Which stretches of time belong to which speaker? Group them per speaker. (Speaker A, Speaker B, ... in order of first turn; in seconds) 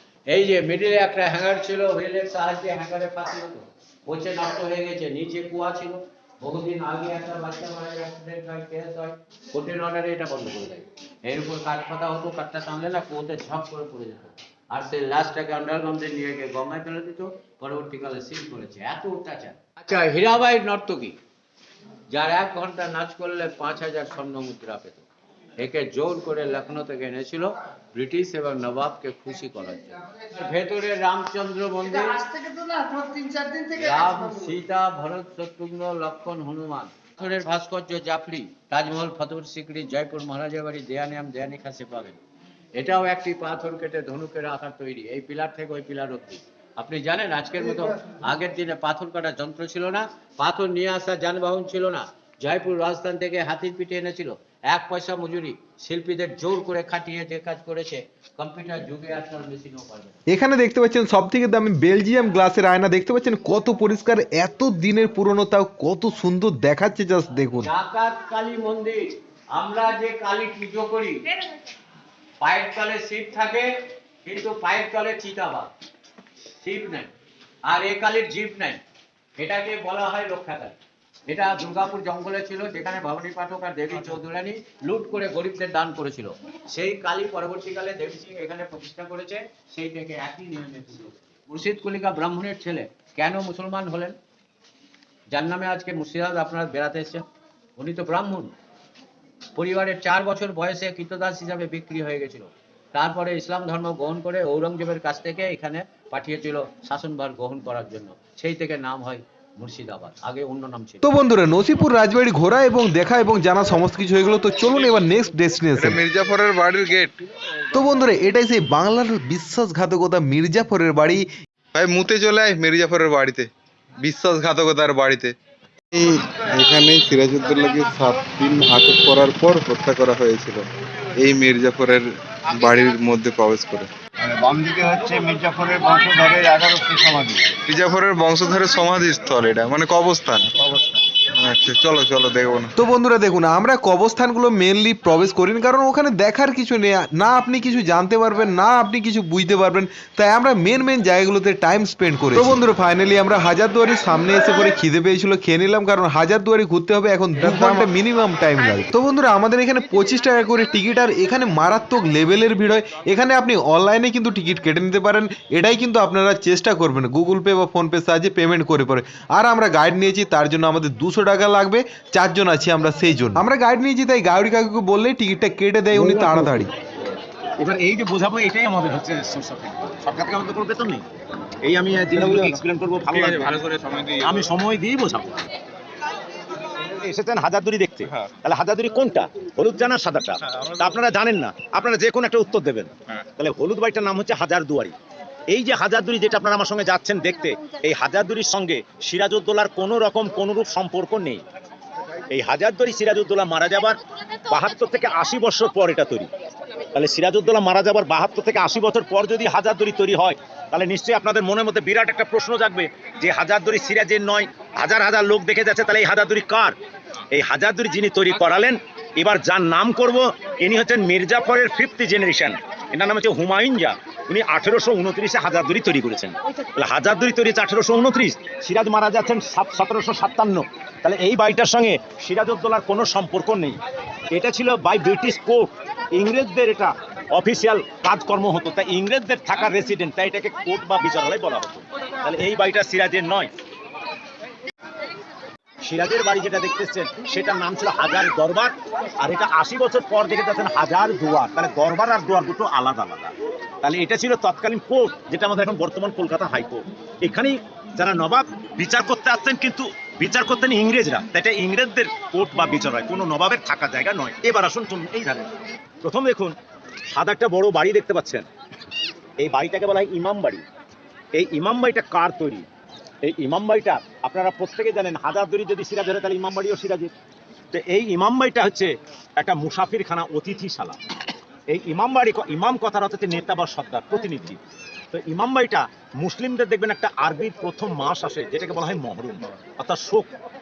Speaker A: 0.3-21.2, 22.1-25.0, 25.6-32.3, 33.4-42.2, 42.8-60.2, 67.6-71.3, 72.4-75.7, 76.6-77.1, 77.7-78.8, 79.4-94.2, 95.3-97.2, 97.8-98.5, 99.5-111.1
Speaker B: 60.3-67.7, 111.0-116.0, 117.7-121.3, 142.8-176.7
Speaker C: 115.8-117.2, 121.7-125.3, 125.9-133.9, 137.7-140.5, 141.3-142.7, 157.4-157.9
Speaker D: 134.2-137.5, 140.5-141.0, 182.1-182.6
Speaker E: 175.9-176.4, 177.6-181.1, 181.6-185.4, 187.0-194.9, 195.5-201.4, 202.3-206.3, 206.9-216.8, 217.3-243.5, 245.8-265.5, 266.0-266.6, 267.1-268.5, 269.4-270.6, 271.3-272.7, 273.2-277.1, 277.7-281.0, 281.7-284.6, 285.1-290.4